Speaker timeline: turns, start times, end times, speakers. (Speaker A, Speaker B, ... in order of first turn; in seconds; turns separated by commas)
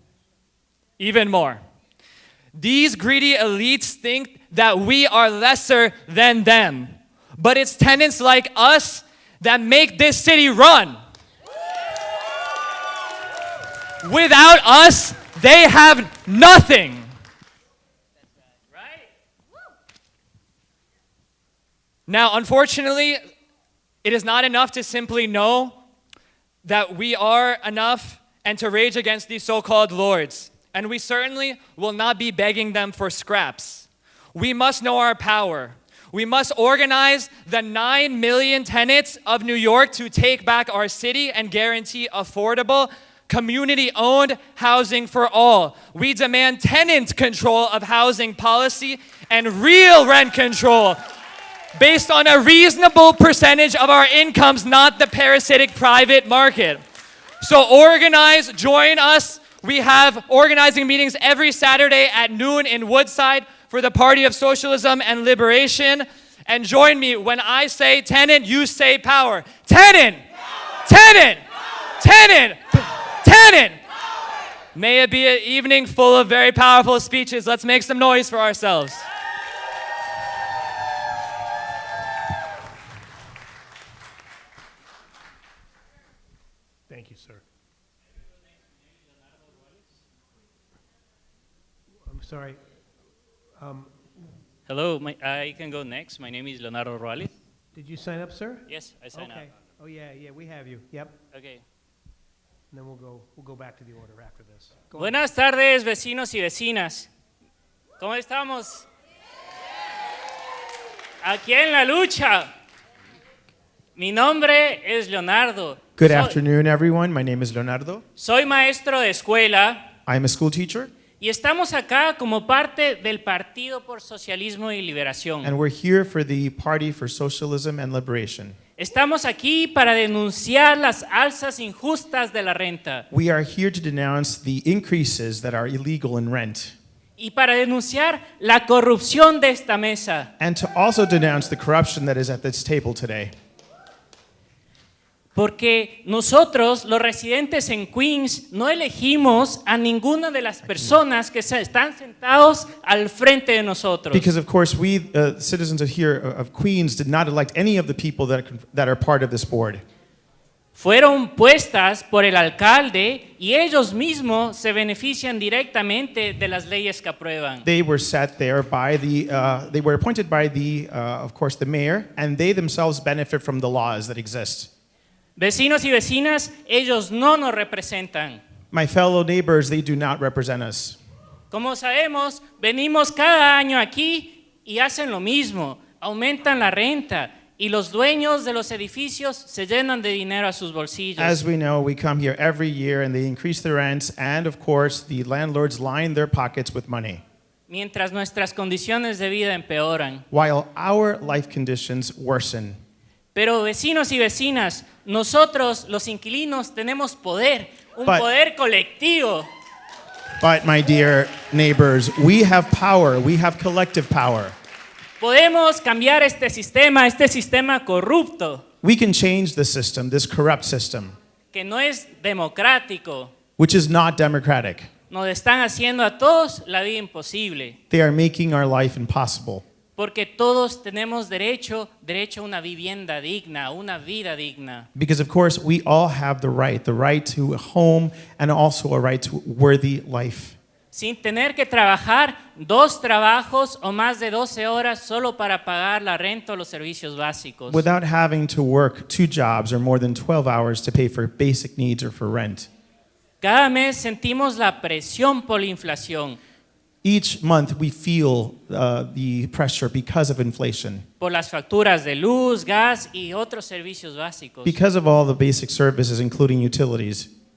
Speaker A: 1.0-1.6, Speaker A: 2.5-11.0, Speaker A: 14.0-17.1, Speaker B: 18.7-19.1, Speaker A: 22.1-23.2, Speaker A: 24.0-25.8, Speaker A: 26.6-51.0, Speaker A: 51.7-56.8, Speaker A: 57.4-70.2, Speaker A: 70.8-71.4, Speaker A: 72.0-73.8, Speaker A: 74.7-79.0, Speaker C: 86.9-87.4, Speaker C: 92.0-92.6, Speaker C: 93.6-94.0, Speaker B: 94.7-97.3, Speaker C: 97.7-101.2, Speaker B: 98.7-99.4, Speaker B: 101.3-101.6, Speaker C: 102.7-105.2, Speaker B: 105.0-107.1, Speaker B: 108.0-108.8, Speaker B: 111.2-112.5, Speaker B: 114.0-116.4, Speaker D: 116.0-118.0, Speaker B: 118.2-119.8, Speaker D: 120.0-120.9, Speaker B: 121.2-125.5, Speaker D: 125.4-128.6, Speaker B: 128.8-133.0, Speaker D: 133.1-136.7, Speaker B: 137.2-140.3, Speaker D: 140.4-143.3, Speaker B: 145.3-154.3, Speaker D: 150.7-150.9, Speaker D: 154.1-159.8, Speaker B: 160.8-167.6, Speaker D: 167.6-174.7, Speaker B: 175.4-178.4, Speaker D: 178.7-181.0, Speaker B: 181.5-191.4, Speaker D: 191.2-197.2, Speaker B: 197.7-200.2, Speaker D: 200.3-202.8, Speaker B: 203.3-209.5, Speaker D: 210.4-214.5, Speaker B: 215.2-218.6, Speaker D: 218.8-221.2, Speaker B: 221.5-223.3, Speaker D: 223.6-224.9, Speaker B: 225.1-227.8, Speaker D: 227.9-229.6, Speaker B: 230.0-234.9, Speaker D: 234.9-240.6, Speaker B: 240.9-247.8, Speaker D: 247.7-252.7, Speaker B: 253.4-256.4, Speaker D: 257.0-261.0, Speaker B: 261.2-264.8, Speaker D: 264.6-267.3